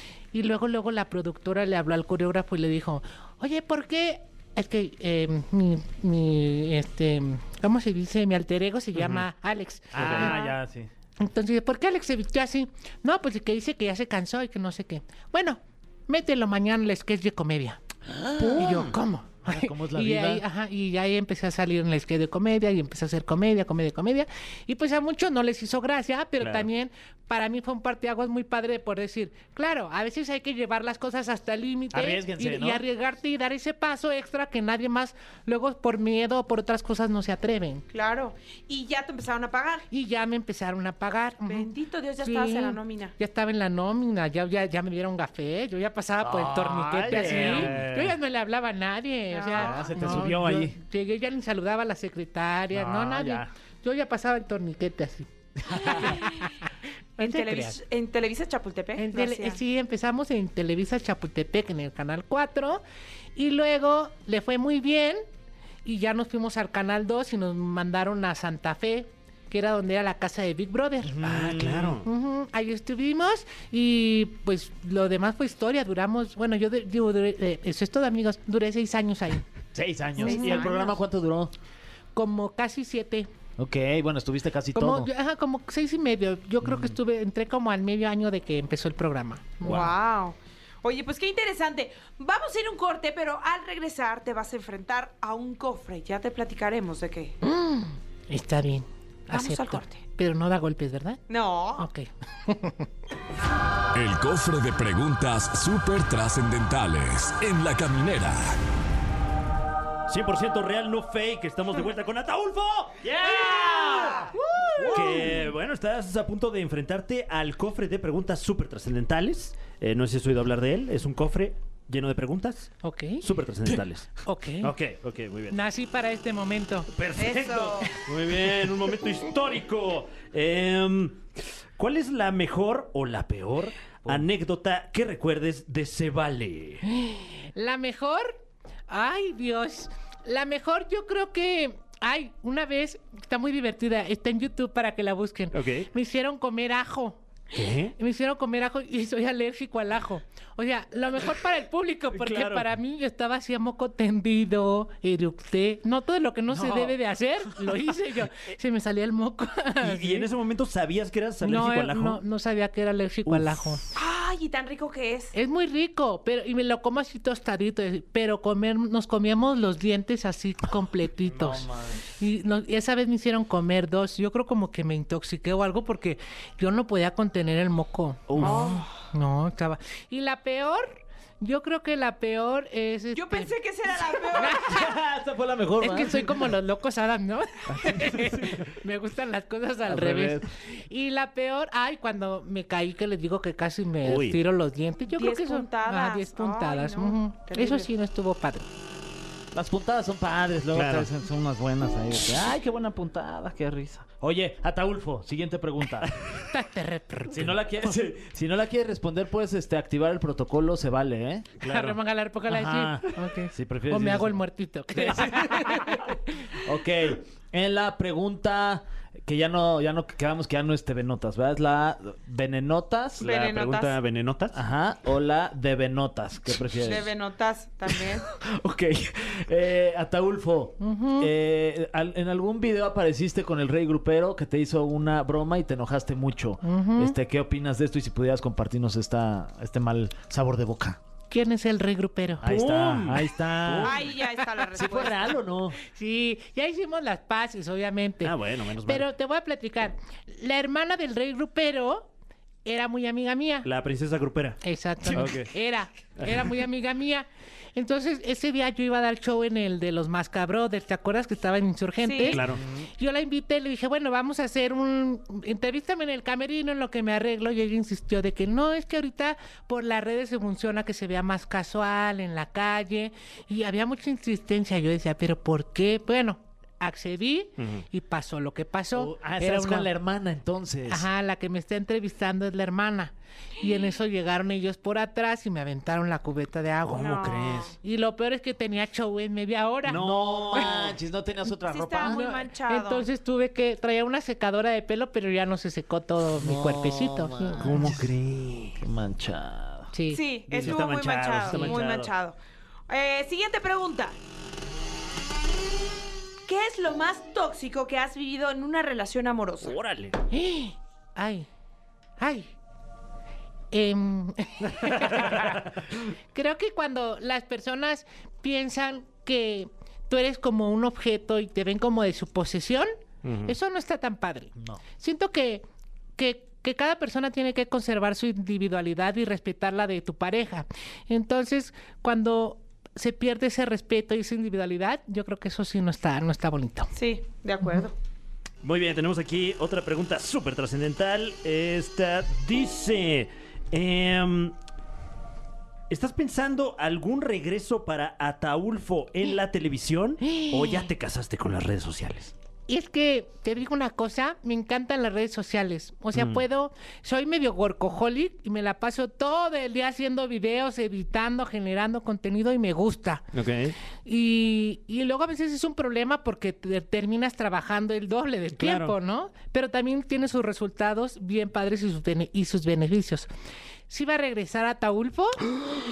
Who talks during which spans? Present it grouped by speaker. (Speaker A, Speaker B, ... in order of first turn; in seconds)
Speaker A: 0.3-10.5, 11.2-17.8, 18.4-37.8, 39.9-41.7, 42.2-56.6, 57.2-57.8, 59.0-62.8, 63.4-65.2, 65.8-71.2, 72.0-79.4, 80.2-80.9, 82.1-83.3, 84.7-89.8, 97.4-101.2, 101.8-102.8, 113.3-115.3, 122.8-123.2, 124.2-124.7, 125.5-126.9, 136.8-138.3, 138.9-147.2, 147.9-160.3, 161.4-163.8, 165.3-185.0, 185.8-198.7, 206.4-207.6, 211.6-216.2, 230.8-231.3, 236.6-237.1, 241.3-242.4, 245.8-252.1, 252.6-253.7, 254.6-262.4, 263.0-279.9, 280.9-287.2, 287.8-290.8, 292.0-298.0, 299.9-300.2, 310.3-311.5, 312.2-312.5, 313.7-322.9, 323.4-325.6, 326.2-336.9, 350.2-350.9, 352.7-363.2, 364.1-373.3, 373.9-375.5
Speaker B: 8.9-9.2, 9.9-10.3, 26.4-26.7, 47.2-47.9, 71.2-72.0, 110.1-114.2, 114.8-125.6, 126.9-131.2, 131.8-136.8, 145.5-145.9, 147.5-147.9, 152.1-152.7, 159.8-162.2, 163.2-163.7, 178.3-178.8, 194.0-194.4, 200.7-201.1, 211.6-212.0, 223.2-224.6, 242.4-244.1, 248.2-249.1, 253.6-255.5, 256.2-256.5, 262.3-262.6, 277.6-277.8, 286.8-287.7, 297.6-298.8, 300.5-302.1, 309.6-310.2, 314.9-315.5, 323.2-323.5, 338.6-344.5, 345.9-352.3, 356.1-356.4, 363.3-363.8, 368.6-368.9
Speaker C: 9.9-10.9, 18.1-18.9, 19.5-20.4, 31.9-32.8, 46.2-48.1, 49.5-50.8, 52.7-53.5, 71.0-72.0, 79.7-81.5, 83.6-85.1, 86.6-87.0, 113.1-114.3, 114.8-115.3, 156.5-156.9, 171.2-172.1, 184.6-186.5, 189.8-190.5, 199.5-206.1, 207.3-211.5, 212.5-214.4, 215.0-215.9, 216.6-223.2, 224.5-227.1, 227.9-241.0, 242.4-244.1, 244.7-245.8, 262.4-262.9, 278.9-281.1, 289.9-292.2, 296.3-298.1, 298.8-299.9, 324.6-324.8
Speaker D: 10.2-10.5, 37.9-39.8, 41.5-43.1, 49.3-50.2, 55.7-56.6, 57.2-59.6, 80.2-81.0, 89.6-97.3, 99.3-100.0, 101.3-101.9, 127.2-127.9, 163.9-165.3, 178.4-178.9, 183.1-184.7, 195.1-197.9, 223.2-224.0, 226.7-228.2, 243.8-245.3, 262.0-262.4, 286.9-287.7, 291.7-293.1, 300.1-302.4, 302.9-304.1, 306.5-309.8, 336.9-337.9
Speaker E: 103.9-108.6